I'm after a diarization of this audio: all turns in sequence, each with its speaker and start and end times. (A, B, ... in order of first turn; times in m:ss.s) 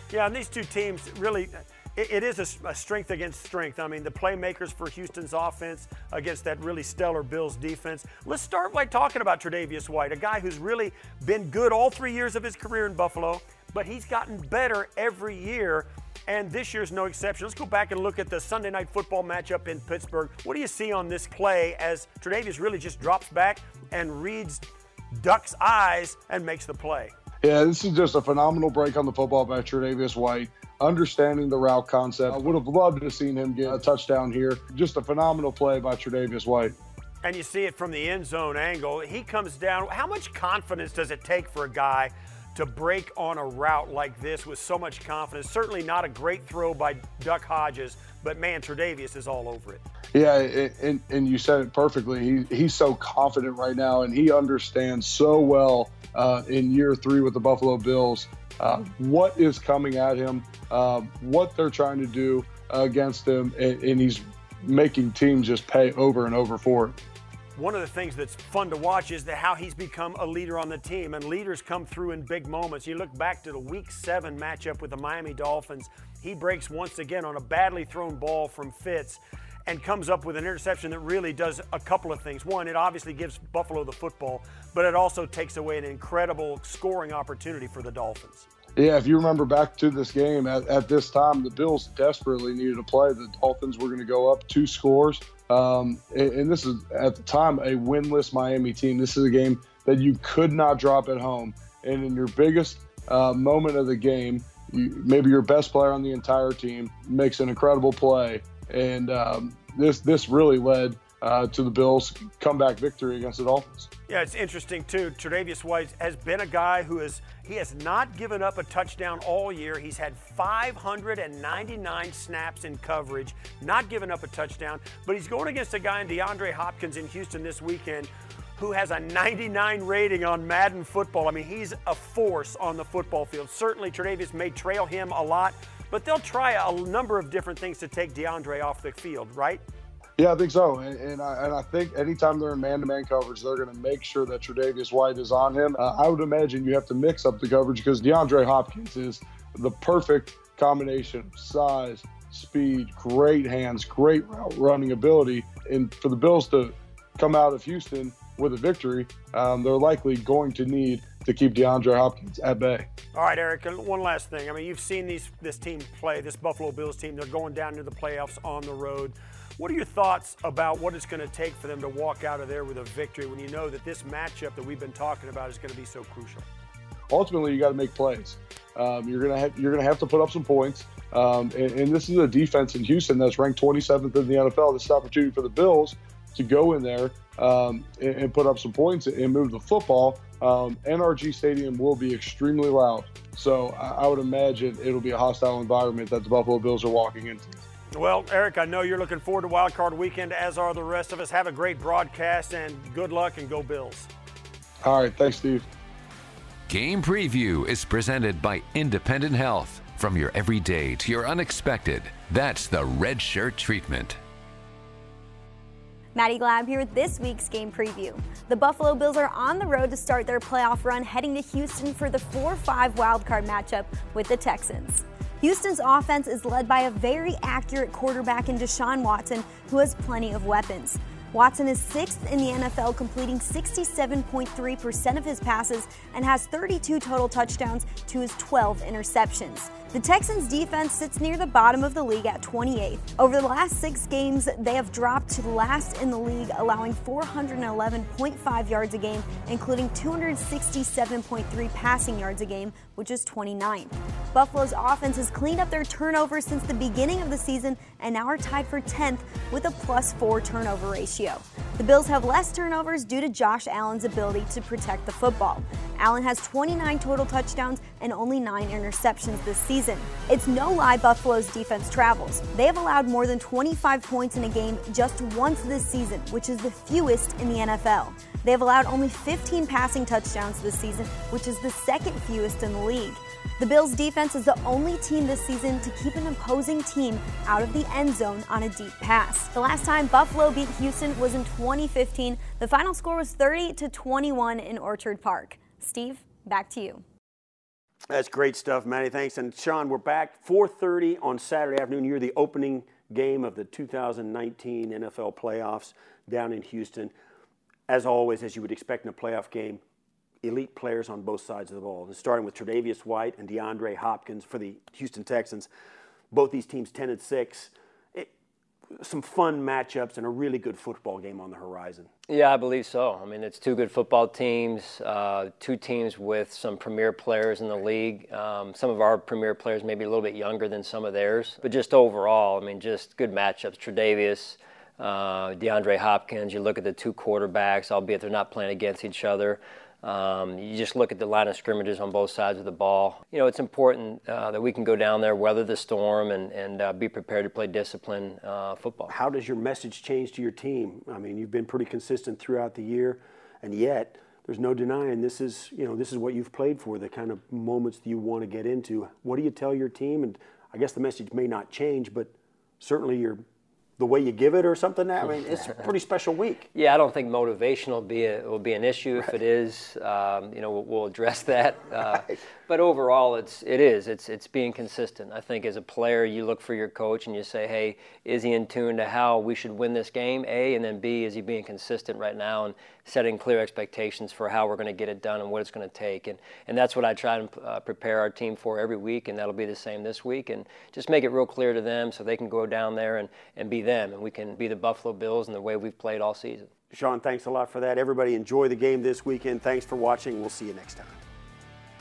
0:00.1-0:27.1 A
0:27.4-0:36.7 B
0:37.2-0:49.8 A
0:50.1-1:07.0 B
1:07.6-1:28.5 A
1:28.8-1:53.9 B
1:54.1-2:19.6 A
2:20.2-2:42.9 B
2:43.1-2:56.4 A
2:57.1-3:17.6 B
3:18.0-3:24.1 A
3:24.8-3:25.6 B
3:26.7-3:34.2 C
3:36.1-4:57.0 D
4:58.1-5:07.1 A
5:07.9-5:09.8 A
5:10.4-5:15.7 A
5:16.3-5:18.3 A
5:19.0-5:22.1 A
5:22.3-5:49.1 E
5:49.1-6:03.4 A
6:04.0-6:06.7 A
6:06.7-6:36.7 E
6:36.9-6:41.2 A